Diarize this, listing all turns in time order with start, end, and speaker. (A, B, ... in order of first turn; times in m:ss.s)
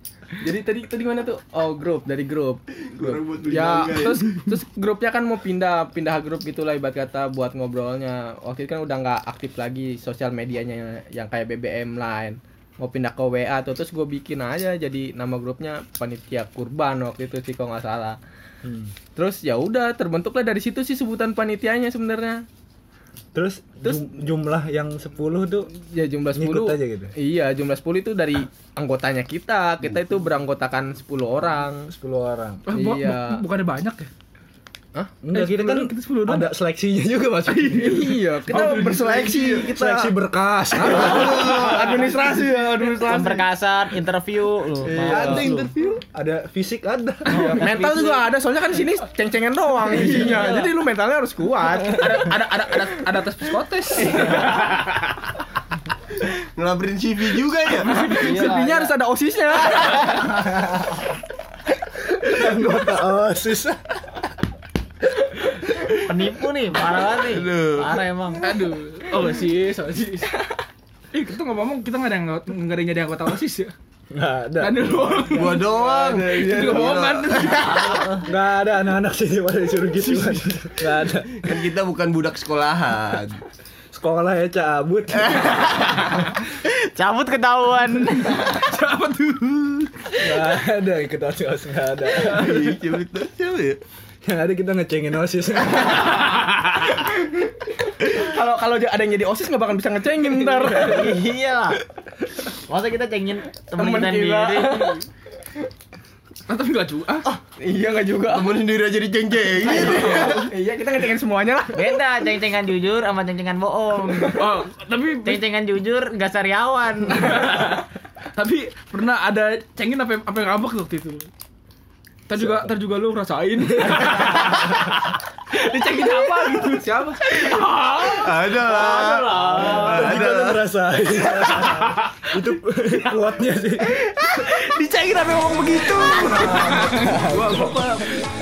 0:00.4-0:18.2 A
0:02.9-0:04.3 B
0:18.6-0:18.9 C
0:19.1-0:22.4 A
0:23.3-0:25.7 C
0:23.8-0:24.1 A
0:25.8-0:31.8 A
0:26.3-0:27.1 C
0:31.9-0:32.6 C
0:32.7-0:34.1 D
0:32.7-0:33.4 A
0:35.2-0:38.6 C
0:35.3-0:36.5 D
0:37.6-0:40.1 A
0:38.5-0:39.0 D
0:38.6-0:39.7 B
0:39.5-0:41.6 C
0:40.8-0:43.4 A
0:40.8-0:42.0 B
0:43.0-0:45.7 E
0:44.9-0:45.4 B
0:44.9-0:47.6 C
0:45.1-0:45.5 A
0:47.3-0:48.2 E
0:47.5-0:52.4 A
0:49.9-0:50.6 D
0:51.9-0:54.5 D
0:54.0-0:54.9 A
0:56.4-0:57.9 B
0:57.8-0:58.6 D
0:58.0-0:58.9 E
0:58.0-1:00.2 A
0:59.7-1:00.2 D
1:01.9-1:04.2 C
1:06.0-1:08.4 E
1:07.2-1:08.0 B
1:08.4-1:13.7 D
1:14.1-1:15.6 C
1:14.6-1:18.0 D
1:15.3-1:17.9 B
1:17.6-1:18.3 E
1:18.2-1:21.6 C
1:20.0-1:20.4 D
1:21.4-1:23.4 B
1:23.9-1:25.5 C
1:25.2-1:25.9 B
1:26.5-1:28.5 E
1:28.3-1:30.2 D
1:30.2-1:32.7 C
1:32.2-1:33.8 B
1:34.2-1:36.2 C
1:35.9-1:36.9 D
1:37.9-1:41.2 A
1:40.7-1:41.8 E
1:42.5-1:45.0 E
1:43.8-1:45.0 A
1:46.5-1:47.2 D
1:47.6-1:48.6 A
1:48.2-1:50.5 B
1:49.7-1:52.0 A
1:50.0-1:50.3 D
1:51.7-1:54.4 E
1:54.2-1:55.4 D
1:55.2-1:57.6 E
1:57.1-2:01.2 D
2:02.3-2:09.1 D
2:02.3-2:02.7 C
2:03.8-2:04.9 C
2:08.1-2:10.6 B
2:08.7-2:10.2 E
2:08.9-2:09.6 A
2:09.6-2:14.0 C
2:11.3-2:12.3 D
2:14.1-2:18.1 D
2:16.1-2:17.8 C